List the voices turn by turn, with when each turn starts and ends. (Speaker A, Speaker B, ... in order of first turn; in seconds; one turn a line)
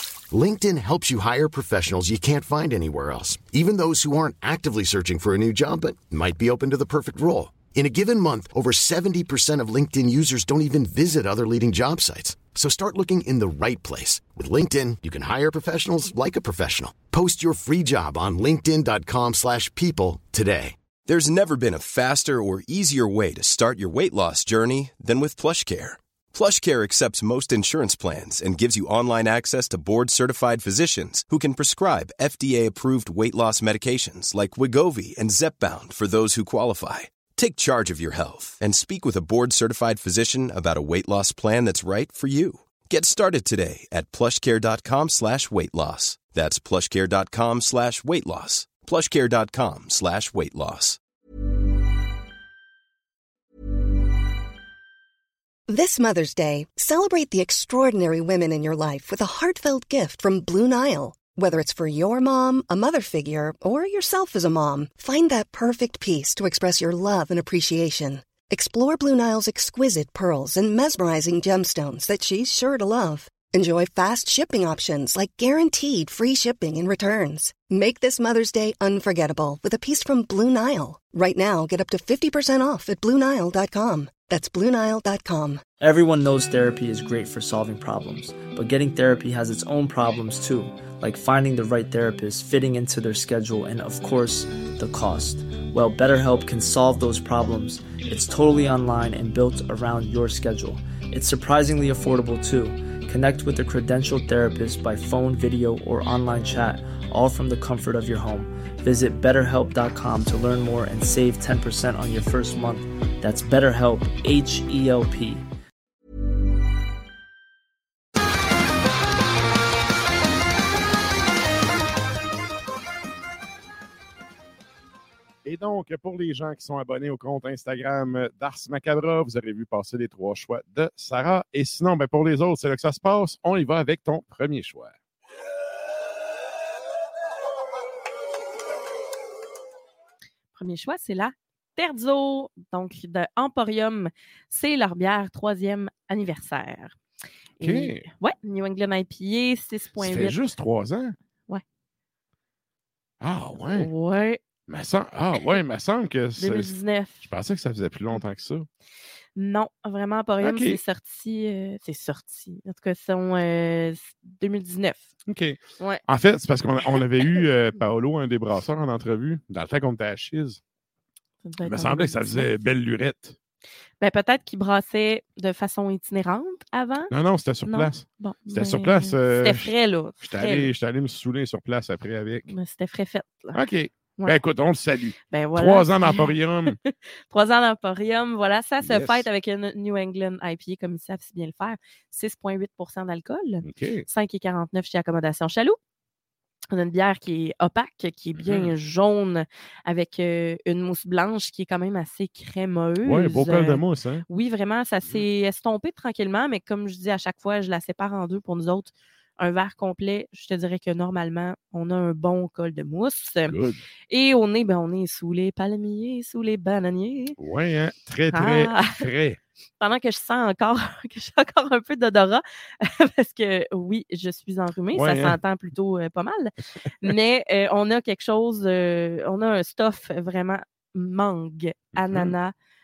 Speaker A: 0.3-20.7
Speaker B: 21.1-51.0
Speaker C: 55.7-85.6
Speaker D: 85.8-115.4
Speaker E: 125.4-134.9
Speaker F: 140.5-146.9
Speaker F: 147.6-150.4
Speaker E: 147.6-148.1
Speaker E: 150.0-151.2
Speaker E: 153.2-153.9
Speaker F: 153.7-154.4
Speaker E: 154.7-158.7
Speaker F: 156.4-157.2
Speaker F: 159.3-165.0
Speaker E: 160.4-160.8
Speaker E: 165.3-170.6
Speaker F: 171.4-172.5
Speaker E: 171.6-173.3
Speaker F: 174.0-177.1
Speaker E: 177.1-182.5
Speaker F: 177.7-180.7
Speaker F: 182.5-183.6
Speaker E: 183.5-186.8
Speaker F: 185.3-195.8
Speaker E: 188.8-189.2
Speaker E: 193.6-194.1
Speaker F: 196.7-213.6
Speaker E: 198.4-198.7
Speaker E: 203.0-204.2
Speaker E: 213.5-213.8
Speaker F: 214.1-217.4
Speaker E: 217.4-219.4
Speaker F: 218.3-219.1
Speaker F: 219.8-232.5
Speaker E: 224.9-225.4
Speaker E: 232.0-232.3